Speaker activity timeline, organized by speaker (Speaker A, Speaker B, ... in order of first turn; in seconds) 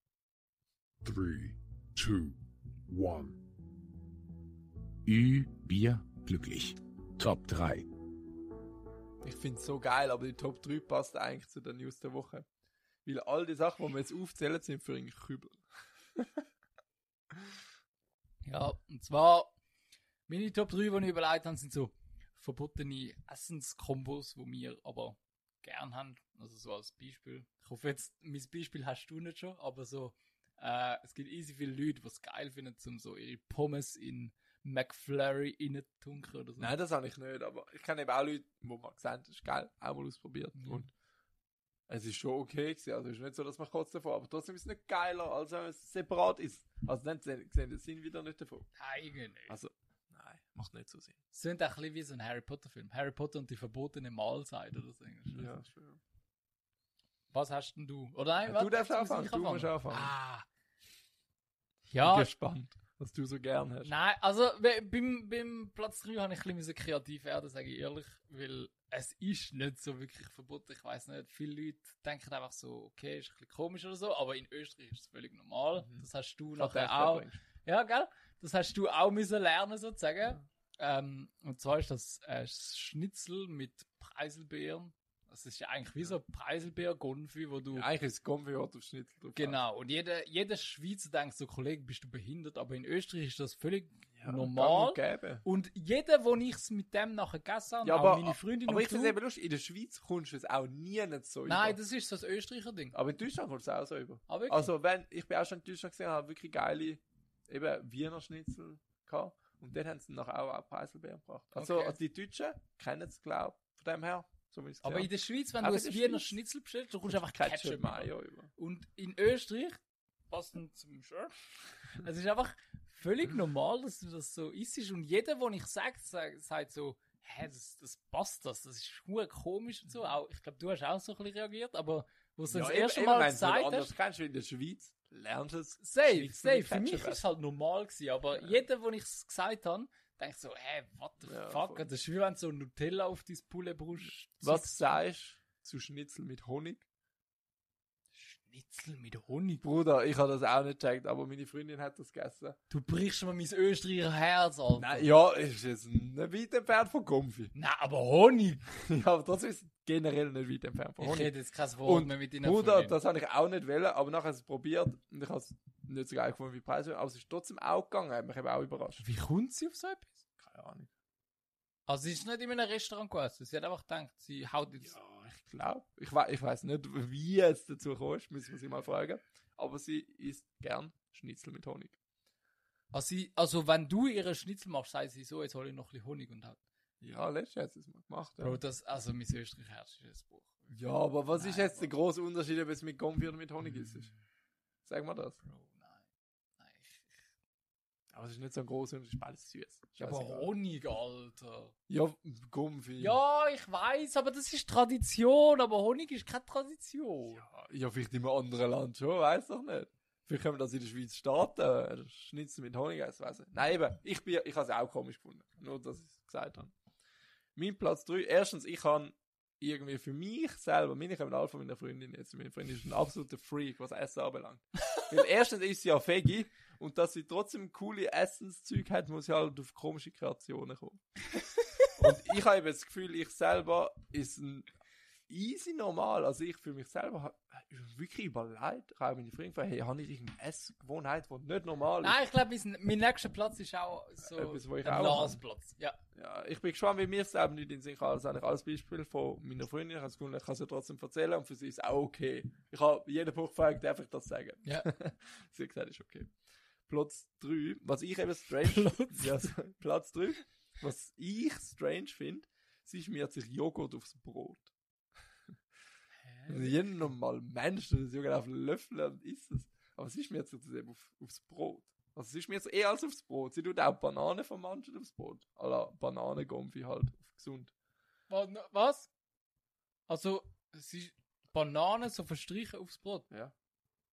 Speaker A: 1.0-2.4, 2.9-3.4, 5.1-7.9
Speaker B: 9.2-12.5, 13.1-15.6, 16.1-16.4, 36.6-40.9, 41.9-48.7, 49.5-51.2, 55.3-56.0, 58.5-60.1, 62.0-63.9, 75.8-77.4, 87.7-89.6, 94.2-95.4, 97.8-101.8, 102.9-116.4, 117.1-118.5, 132.5-137.3, 138.3-138.6, 141.3-141.9, 144.1-146.8, 149.6-152.6, 154.8-157.5, 158.7-161.3, 161.8-169.0, 170.4-170.9, 174.8-182.0, 187.0-188.6, 190.7-194.1, 194.9-195.4, 198.1-200.5, 201.9-203.2, 207.3-216.7, 217.6-231.0, 231.9-234.7, 235.3-242.2, 244.2-245.4, 246.2-256.3, 256.9-264.7, 266.5-277.7
Speaker C: 18.4-19.5, 20.3-36.7, 40.5-40.9, 48.8-49.6, 51.3-55.6, 57.3-60.5, 61.9-62.3, 63.8-87.9, 89.4-99.2, 101.5-103.0, 104.3-104.7, 111.6-112.0, 114.8-119.8, 120.3-121.3, 121.9-133.9, 135.8-145.0, 148.1-149.7, 152.7-155.1, 157.5-158.7, 161.0-163.0, 169.0-170.2, 171.9-175.0, 182.9-186.6, 188.4-190.8, 191.3-191.9, 195.4-196.0, 196.6-197.2, 200.0-201.7, 203.0-207.5, 242.0-246.0, 258.6-259.5, 266.2-267.0, 278.3-279.1, 280.1-283.3